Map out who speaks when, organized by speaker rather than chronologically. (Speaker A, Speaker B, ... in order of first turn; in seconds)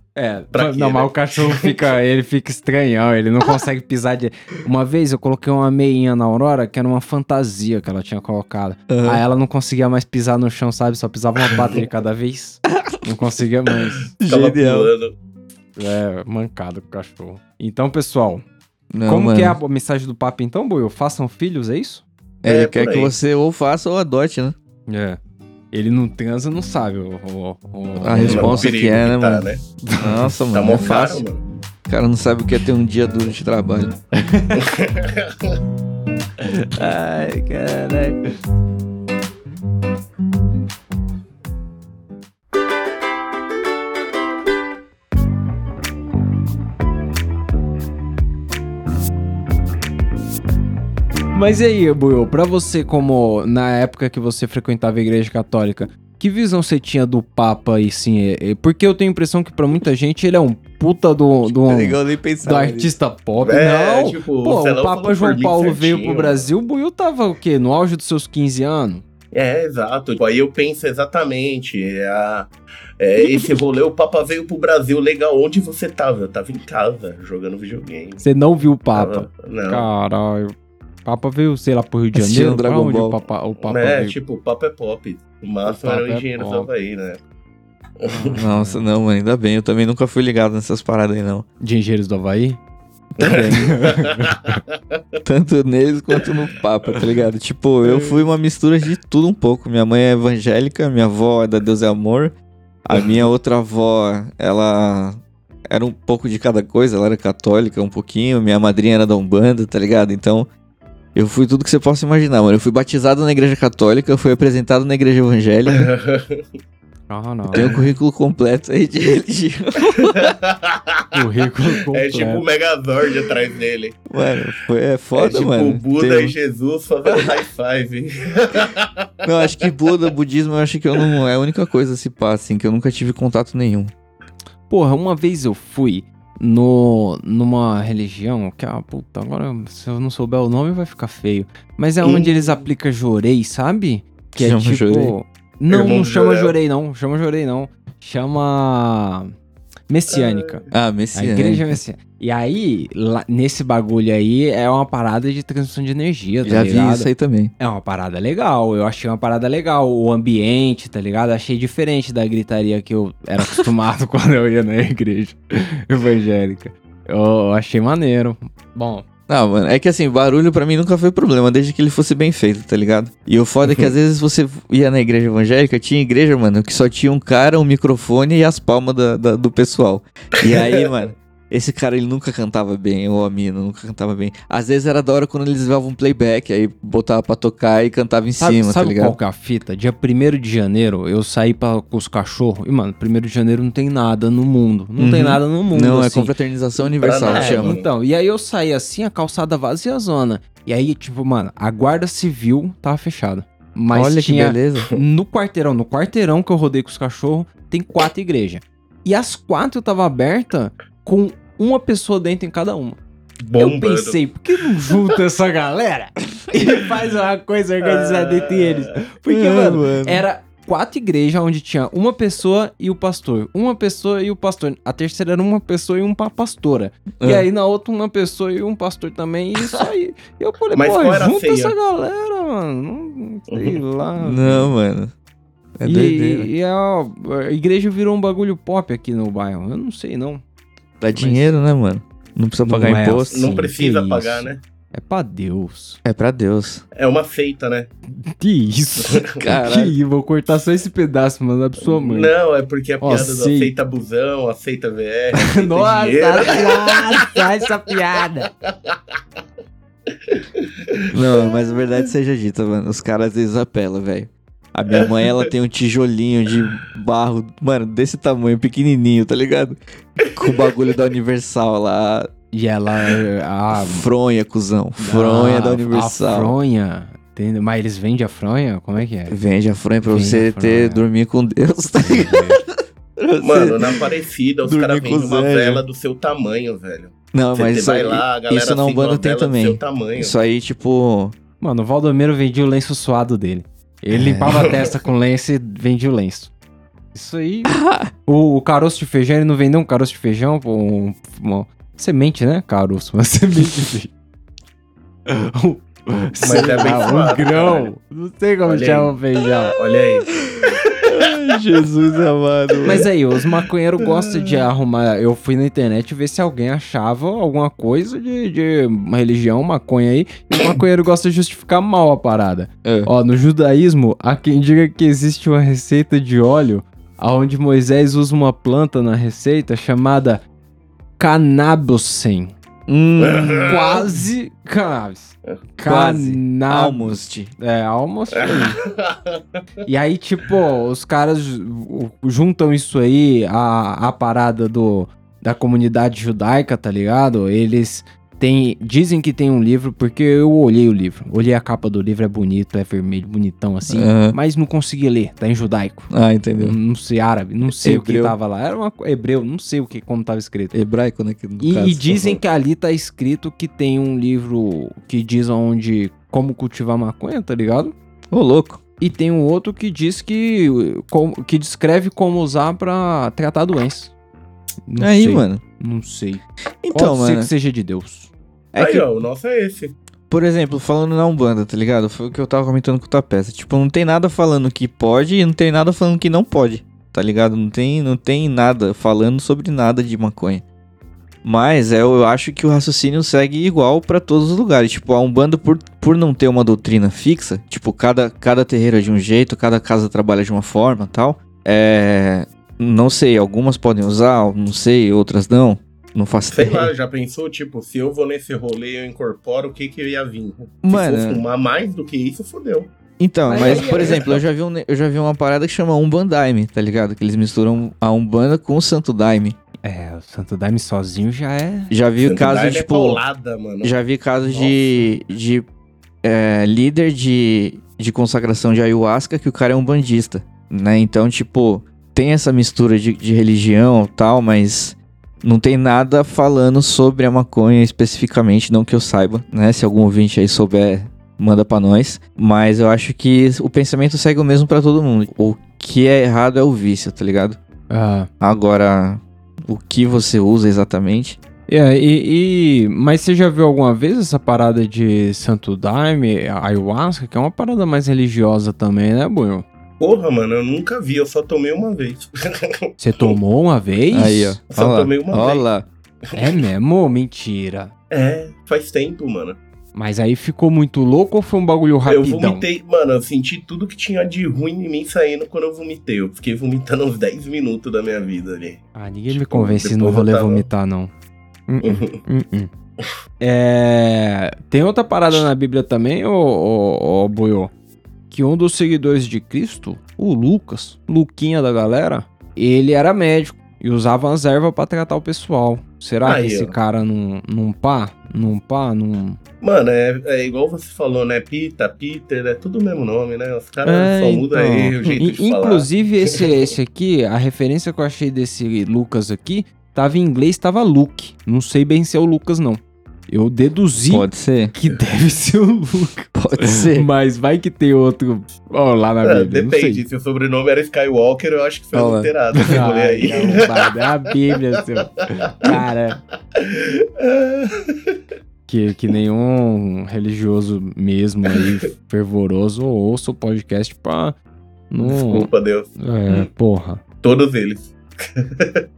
Speaker A: 0.2-14.1, 15.8-18.4, 19.1-22.1, 24.9-25.2, 25.7-28.7, 29.8-30.3, 34.2-34.7, 36.4-38.2, 51.3-69.0, 78.2-80.5, 81.0-84.2, 85.6-86.7, 88.1-88.8, 91.6-92.6, 93.2-94.6, 117.1-117.9, 121.1-122.4, 134.7-149.3, 149.9-150.6, 151.1-169.1, 188.4-196.3, 197.3-213.0, 213.6-234.7, 235.8-240.4, 241.1-241.5, 242.6-246.0, 248.2-252.3, 253.0-253.7, 255.3-258.5, 272.5-274.1, 275.0-279.4, 280.1-281.0, 282.0-282.6, 291.6-296.5, 297.1-304.1, 305.3-309.8, 312.9-330.4, 331.2-332.5, 333.6-338.8, 339.9-360.7, 361.6-367.9, 369.0-374.1, 374.9-378.3, 413.5-414.3, 419.8-421.9, 447.9-448.3, 451.7-459.6, 463.0-464.6, 466.4-467.9, 469.9-472.6, 478.9-481.1, 481.7-482.7, 483.4-487.7, 488.3-499.4, 503.9-520.0, 522.5-526.2, 528.7-534.4, 534.9-537.0
Speaker B: 0.5-1.8, 14.2-15.1, 22.5-23.1, 28.2-29.6, 30.5-31.4, 34.5-35.6, 63.4-66.5, 69.3-78.2, 78.9-79.9, 83.7-87.2, 88.0-88.4, 93.2-95.0, 102.9-103.2, 115.7-116.4, 120.1-121.2, 121.9-124.0, 125.1-129.7, 142.0-142.6, 145.7-146.6, 150.1-150.7, 196.8-197.9, 213.4-214.2, 217.8-218.9, 230.7-231.8, 233.5-233.8, 243.3-244.6, 246.9-247.9, 249.1-249.4, 251.8-257.4, 258.6-259.0, 260.3-261.5, 264.9-265.2, 283.4-290.4, 306.4-307.9, 308.6-310.3, 333.2-333.9, 338.4-339.4, 378.8-379.9, 406.5-412.9, 413.6-414.4, 422.2-423.9, 460.0-463.4, 464.7-465.6, 466.3-466.6, 468.1-469.6, 472.1-480.6, 481.8-482.2, 496.2-496.8, 499.6-506.5, 519.2-524.0, 525.3-525.8, 526.5-528.2, 535.0-535.9, 537.2-538.8
Speaker C: 8.9-9.2, 14.2-14.9, 18.9-19.6, 22.4-24.6, 28.0-29.5, 30.0-31.2, 31.9-34.0, 61.5-62.9, 82.1-83.2, 88.4-91.5, 93.2-93.7, 95.2-102.3, 102.8-110.5, 111.1-115.9, 117.5-120.3, 124.1-126.3, 129.2-133.9, 144.3-145.1, 150.7-151.7, 156.4-157.5, 169.3-189.2, 195.0-197.8, 203.9-204.9, 219.3-220.2, 227.2-227.4, 234.2-235.1, 235.8-236.5, 241.0-243.4, 246.1-246.8, 249.4-249.9, 261.1-272.3, 273.7-276.6, 279.3-284.0, 284.6-285.8, 287.3-291.4, 294.1-294.8, 297.7-298.1, 310.6-313.1, 322.8-323.1, 332.9-333.8, 335.9-337.5, 353.9-354.4, 356.1-356.8, 357.6-358.4, 360.7-362.4, 368.3-368.8, 375.0-375.6, 376.8-377.5, 378.7-379.1, 380.3-390.6, 391.4-406.9, 410.8-411.4, 413.2-419.6, 421.9-423.2, 423.8-425.6, 426.2-447.6, 448.4-451.4, 464.1-465.9, 514.1-514.7, 516.4-517.1, 521.9-522.8